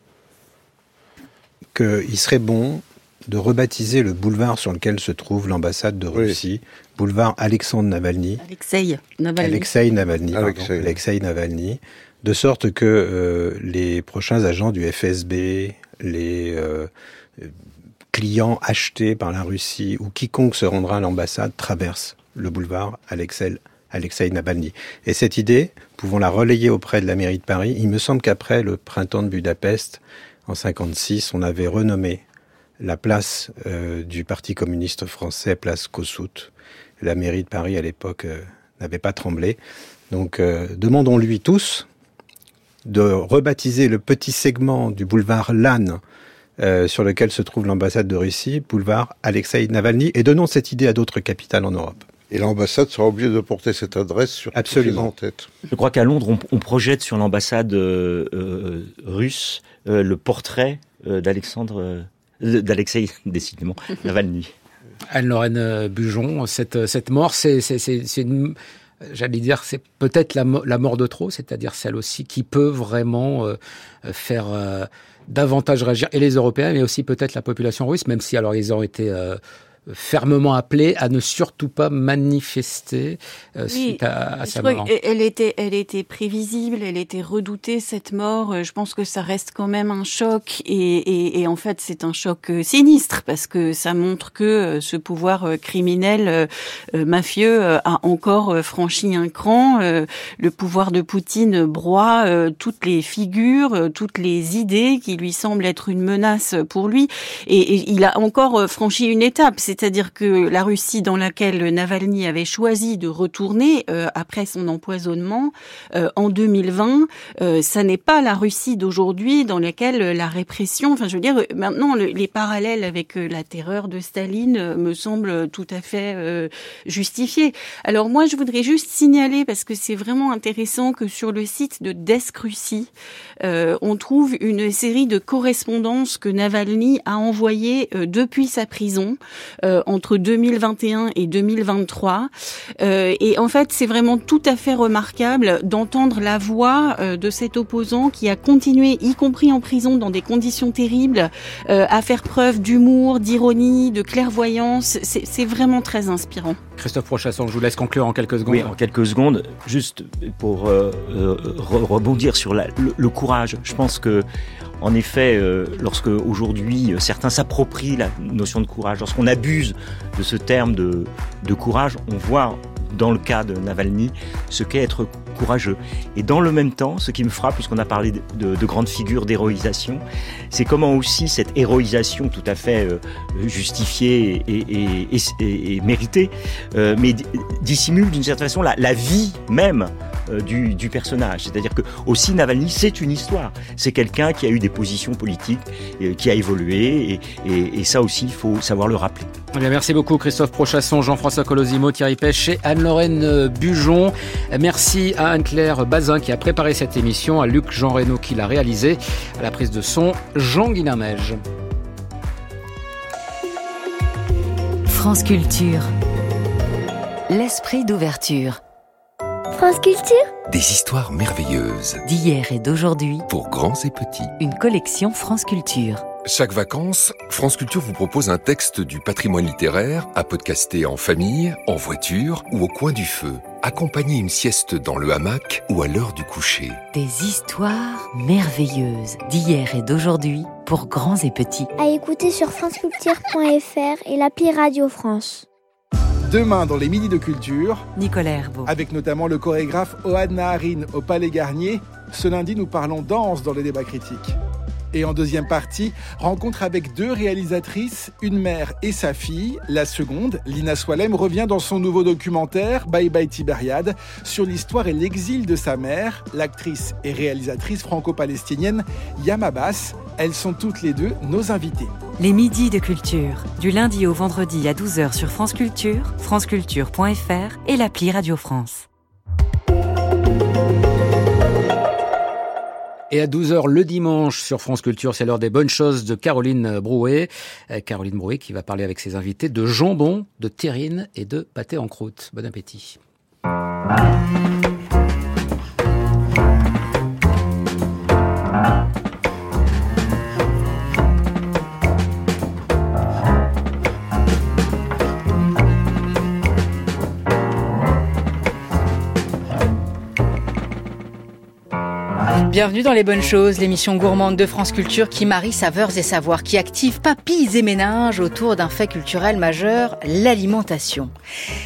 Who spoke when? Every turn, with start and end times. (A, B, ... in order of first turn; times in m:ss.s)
0:01.7-0:08.4 A
0:08.4-0:09.7 B
0:09.4-0:17.5 A
0:10.3-0:10.9 C
0:18.1-0:32.2 A
0:32.8-0:41.9 A
0:42.8-0:46.0 A
0:46.6-0:52.1 A
0:52.3-0:55.5 C
0:54.5-0:55.1 A
0:55.7-1:04.5 D
1:05.1-1:24.9 E
1:23.7-2:12.9 B
2:13.4-2:36.6 B
2:36.8-2:38.7 E
2:38.4-2:44.2 D
2:44.8-3:19.3 D
3:19.5-3:31.4 E
3:34.9-3:35.9 F
3:37.3-3:38.6 F
3:39.5-3:40.3 G
3:40.5-3:42.0 H
3:42.0-3:43.3 F
3:43.3-3:44.3 H
3:44.4-3:46.0 F
3:46.2-3:56.8 H
3:56.9-4:01.7 F
4:01.8-4:05.4 G
4:06.3-4:07.9 I
4:07.9-4:08.7 F
4:08.6-4:14.3 I
4:14.9-4:31.9 I
4:32.2-4:38.9 F
4:43.1-4:53.0 E
5:12.4-5:21.1 J